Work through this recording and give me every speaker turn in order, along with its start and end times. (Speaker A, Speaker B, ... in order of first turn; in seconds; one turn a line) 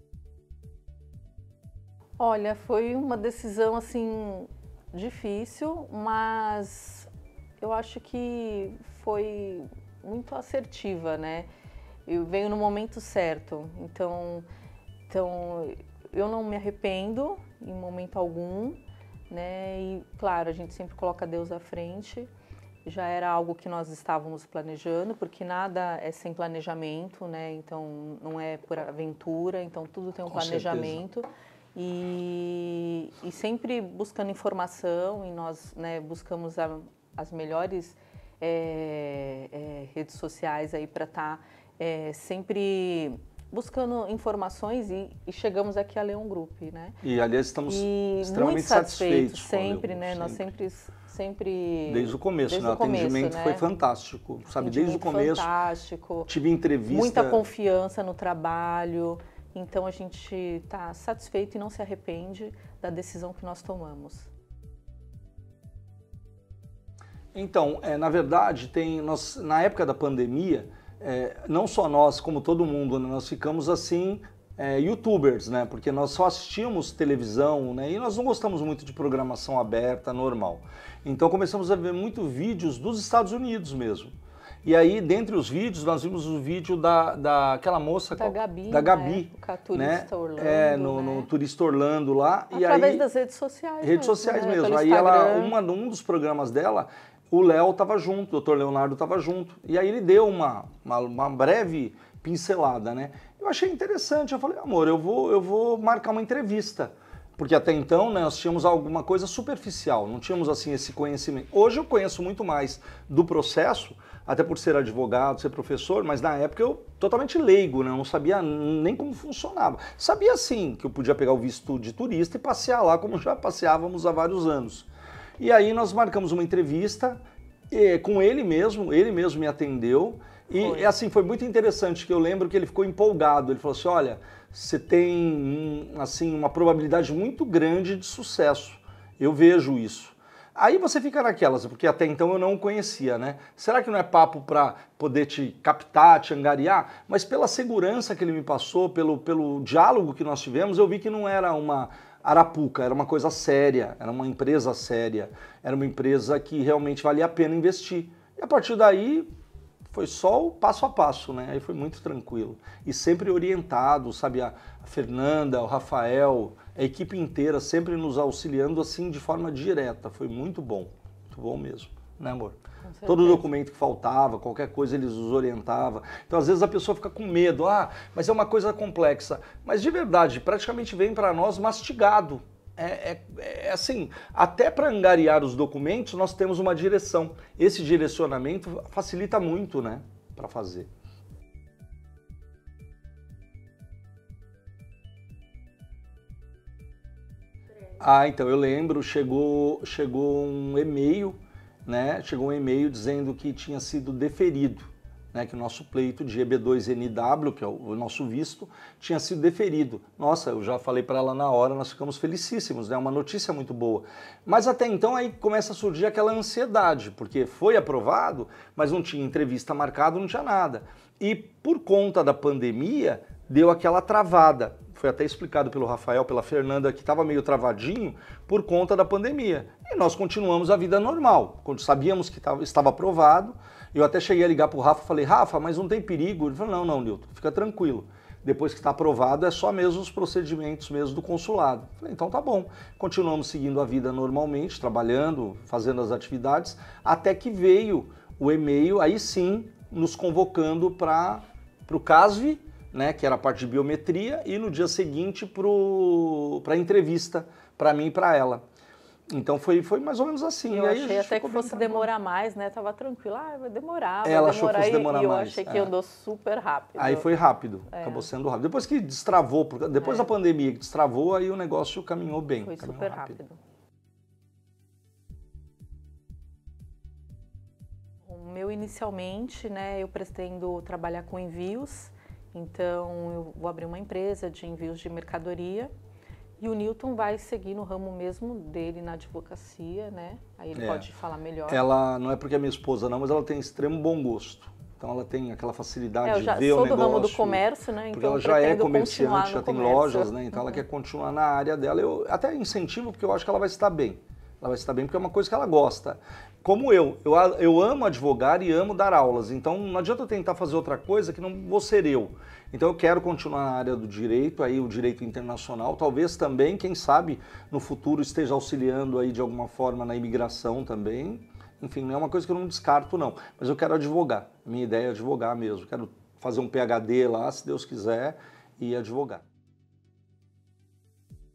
Speaker A: 2.2-7.1
Speaker A: 7.6-11.5
Speaker A: 12.1-14.4
Speaker A: 15.1-22.3
Speaker A: 22.9-47.0
Speaker B: 30.3-31.0
Speaker B: 47.0-50.5
Speaker A: 47.7-53.6
Speaker B: 51.9-55.5
Speaker A: 54.5-56.3
Speaker B: 56.3-57.4
Speaker A: 56.9-64.3
Speaker B: 67.3-93.0
Speaker A: 88.2-91.3
Speaker A: 92.5-95.6
Speaker B: 93.8-124.9
Speaker B: 125.4-159.3
Speaker A: 130.6-130.9
Speaker B: 159.9-190.9
Speaker A: 172.8-173.5
Speaker B: 198.0-258.6
Speaker B: 259.3-262.1
Speaker A: 260.7-268.3
Speaker B: 264.2-265.9
Speaker B: 267.0-273.4
Speaker A: 270.0-270.3
Speaker A: 272.6-273.6
Speaker A: 278.3-285.9
Speaker A: 286.6-291.8
Speaker B: 290.8-291.1
Speaker B: 291.7-329.4
Speaker A: 296.2-300.7